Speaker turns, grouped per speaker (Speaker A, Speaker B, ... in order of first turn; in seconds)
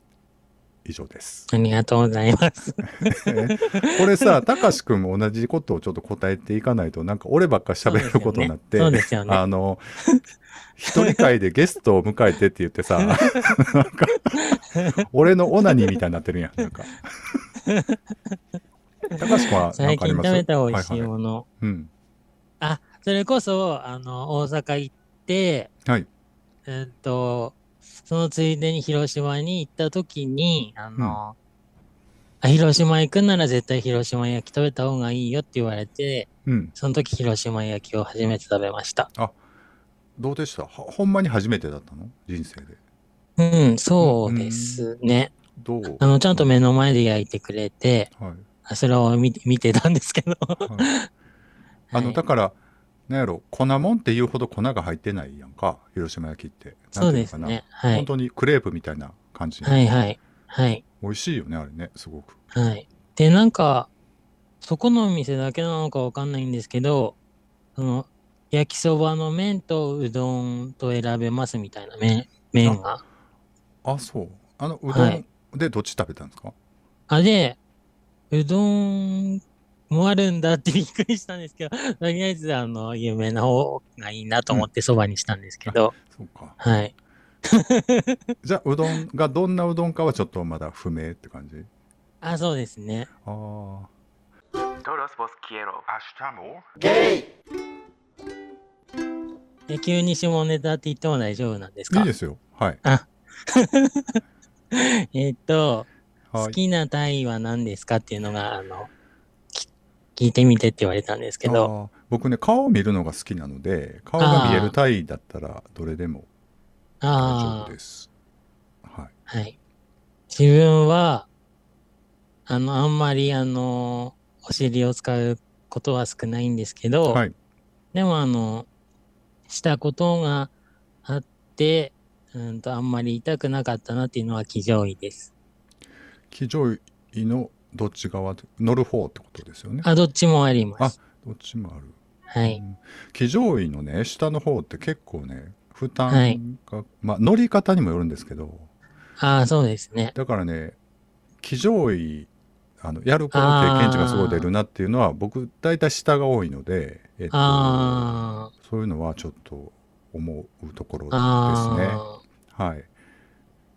Speaker A: 0.8-1.5, 3.1-10.0, 10.8-17.4, 19.2-21.9, 36.5-36.7, 40.2-42.8, 44.0-44.9, 45.5-46.5, 48.1-48.5, 50.6-50.9, 51.9-52.5, 53.1-59.8, 61.0-62.4, 73.8-76.5, 85.7-86.6, 88.4-91.7, 93.2-93.9, 101.9-102.8, 106.3-106.6, 111.4-116.3, 117.2-118.1, 118.8-119.1, 127.1-127.3, 136.3-139.9, 140.8-148.7, 150.1-150.8, 151.4-152.3, 152.8-162.9
Speaker B: 1.5-4.3, 7.8-9.4, 10.9-11.2, 17.6-18.4, 19.4-21.4, 22.6-25.7, 26.6-31.4, 32.4-39.1, 43.4-45.3, 46.0-48.1, 48.6-51.1, 51.9-52.2, 57.0-58.1, 59.6-60.8, 62.5-63.9, 64.6-67.2, 67.8-73.0, 74.9-75.2, 77.1-77.6, 78.3-85.9, 86.6-86.9, 87.5-88.2, 92.2-93.1, 99.7-102.1, 102.8-104.2, 104.7-105.9, 106.4-108.9, 109.5-111.7, 114.2-114.7, 117.0-117.7, 119.3-119.5, 120.3-121.3, 122.5-127.2, 127.9-128.7, 129.5-130.5, 131.0-135.3, 139.8-140.9, 142.3-142.6, 146.1-146.4, 149.2-150.1, 153.3-154.5, 157.3-158.5, 161.1-162.2
Speaker C: 94.8-96.8